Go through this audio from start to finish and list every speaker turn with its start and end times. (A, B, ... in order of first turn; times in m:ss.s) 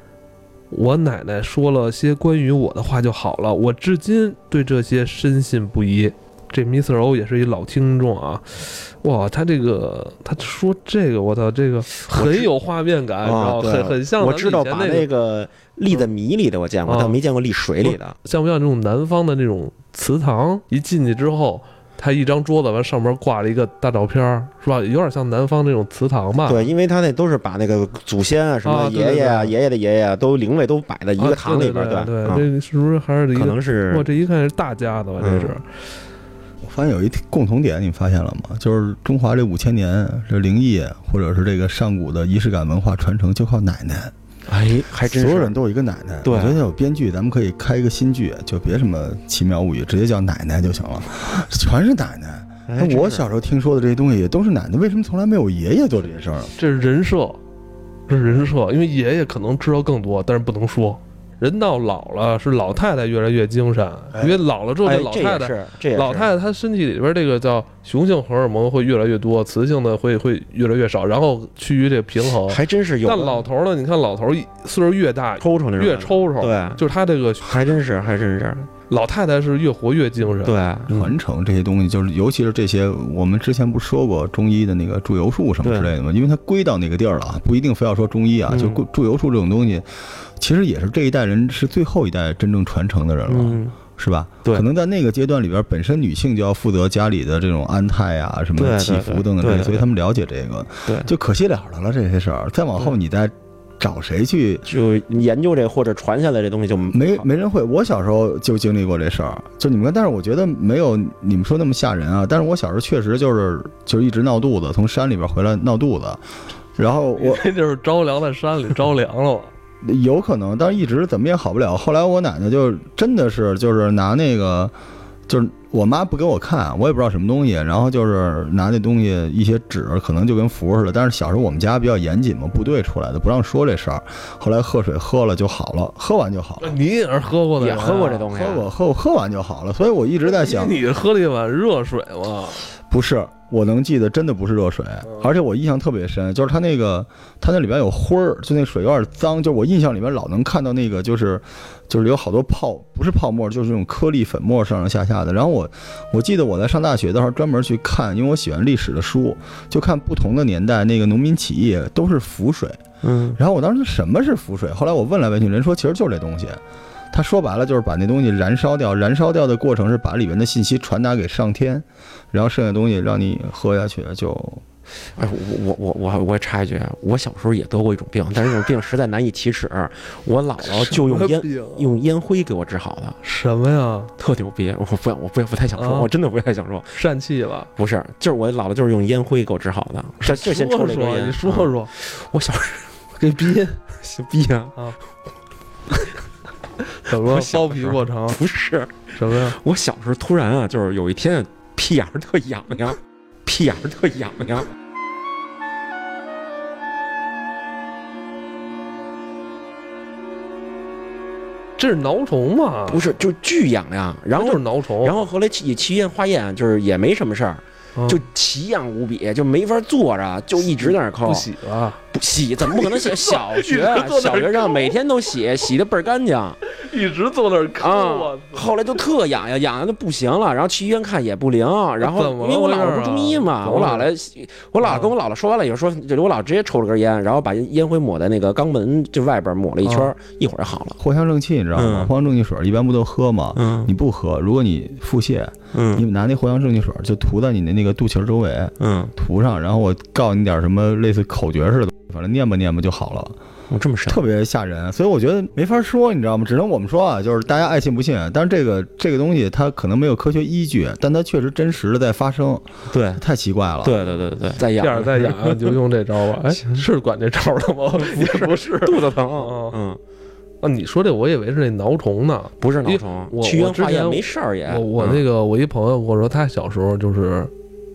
0:00.7-0:15.1 A
0:12.1-0:12.5 B
0:13.2-0:18.2 B
0:16.9-0:17.2 A
0:17.8-0:26.7 A
0:26.5-0:32.5 B
0:28.6-0:29.5 A
0:31.2-0:35.6 A
0:33.4-0:34.1 B
0:35.2-0:35.6 B
0:36.6-0:44.1 C
0:44.5-0:45.5 B
0:45.0-0:56.5 C
0:46.2-0:46.6 B
0:52.7-0:53.2 B
0:56.6-0:57.4 A
0:58.1-1:17.6 A
1:04.2-1:06.3 B
1:12.3-1:13.5 B
1:15.4-1:16.8 B
1:17.4-1:18.7 B
1:18.9-1:20.6 A
1:20.4-1:21.2 B
1:20.9-1:44.7 C
1:25.6-1:25.9 B
1:28.5-1:28.8 B
1:33.3-1:33.8 B
1:38.6-1:39.9 B
1:44.7-1:47.2 B
1:46.9-1:56.2 C
1:56.8-1:57.5 C
1:57.2-1:59.5 A
1:59.8-2:04.7 C
2:05.3-2:16.8 C
2:16.6-2:18.3 A
2:17.6-2:18.7 B
2:18.3-2:20.8 C
2:20.3-2:22.6 A
2:22.9-2:42.8 C
2:43.0-2:43.4 B
2:43.4-2:46.6 C
2:47.1-2:54.6 C
2:55.2-3:03.2 B
3:00.6-3:01.9 A
3:03.2-3:04.1 A
3:04.2-3:07.0 B
3:05.8-3:06.1 A
3:07.0-3:07.7 A
3:07.8-3:12.9 B
3:10.2-3:11.9 A
3:13.2-3:13.8 A
3:14.0-3:14.8 B
3:16.9-3:18.4 A
3:17.1-3:24.7 B
3:19.2-3:19.6 A
3:31.8-3:33.1 A
3:32.9-3:41.5 B
3:34.4-3:35.2 A
3:38.0-3:38.2 A
3:40.7-3:42.0 A
3:42.1-3:46.6 B
3:42.6-3:45.0 A
3:46.7-3:48.7 A
3:47.8-4:01.0 B
3:52.0-3:54.1 A
3:54.8-3:55.1 A
3:59.8-4:00.1 A
4:01.0-4:13.4 C
4:01.8-4:02.1 B
4:03.6-4:03.9 B
4:05.7-4:06.0 B
4:08.8-4:09.1 B
4:13.7-4:14.2 B
4:14.1-4:24.1 C
4:22.9-4:23.2 B
4:23.8-4:25.8 B
4:24.7-4:29.8 A
4:26.5-4:26.8 B
4:28.0-4:30.0 B
4:30.6-4:37.5 A
4:32.6-4:35.2 B